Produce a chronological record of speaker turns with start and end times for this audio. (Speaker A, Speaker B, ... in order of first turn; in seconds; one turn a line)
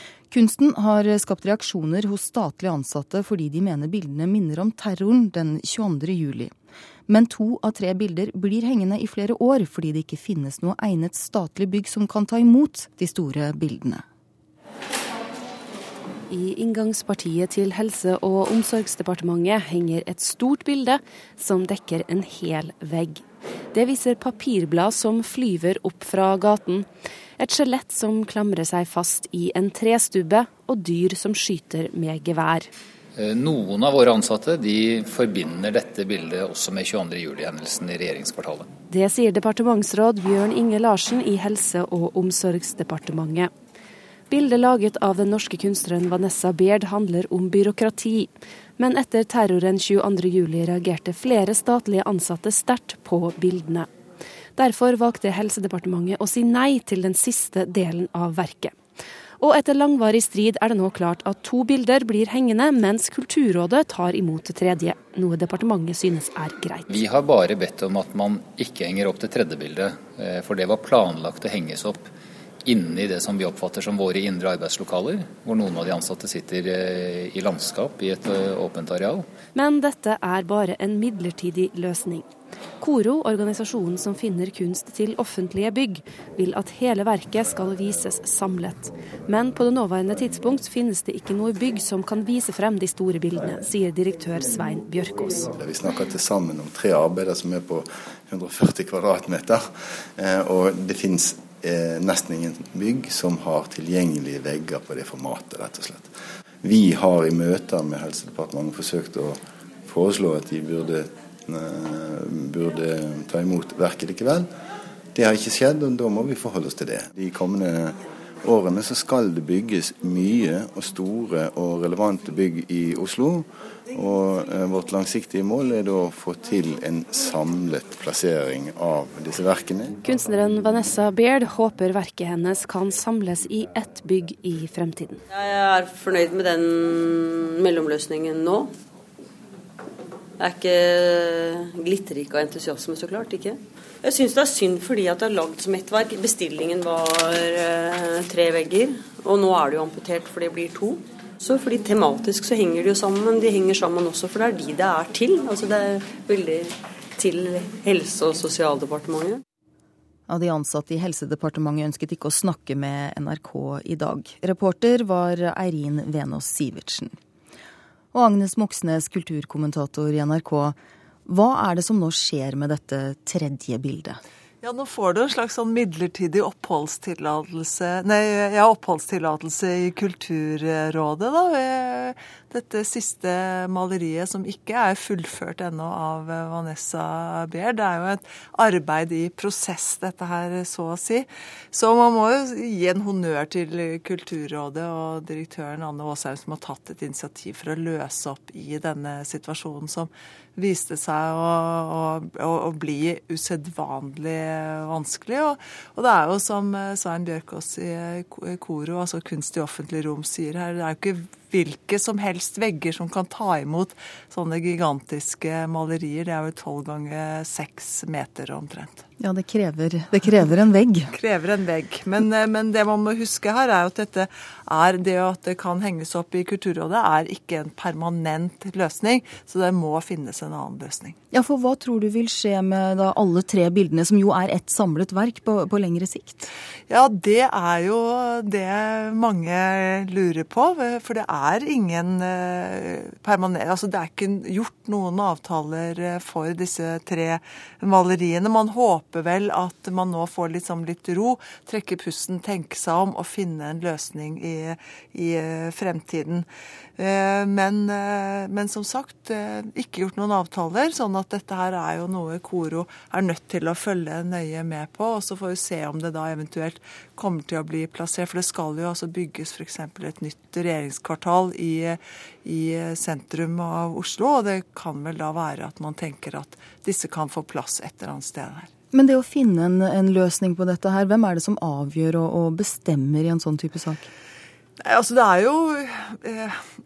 Speaker A: 0.3-6.5
Speaker A: 7.1-14.0
Speaker B: 16.3-23.2
Speaker B: 23.7-26.9
Speaker B: 27.4-32.7
Speaker C: 33.1-38.7
Speaker B: 38.9-43.5
Speaker B: 44.3-53.9
Speaker B: 54.5-58.7
Speaker B: 59.4-66.9
Speaker C: 66.9-72.1
Speaker C: 72.6-79.3
Speaker B: 79.5-82.3
Speaker B: 82.8-95.5
Speaker D: 95.5-99.6
Speaker D: 100.2-106.1
Speaker D: 106.6-114.5
Speaker D: 115.1-129.9
Speaker B: 130.0-135.2
Speaker E: 135.3-138.7
Speaker E: 140.4-159.4
Speaker A: 160.3-167.2
Speaker A: 168.1-174.2
Speaker F: 174.6-219.0
Speaker A: 219.2-221.1
Speaker F: 221.1-231.2
Speaker A: 231.3-236.5
Speaker F: 236.9-256.4
Speaker F: 257.0-278.7
Speaker A: 278.9-284.1
Speaker F: 284.8-286.6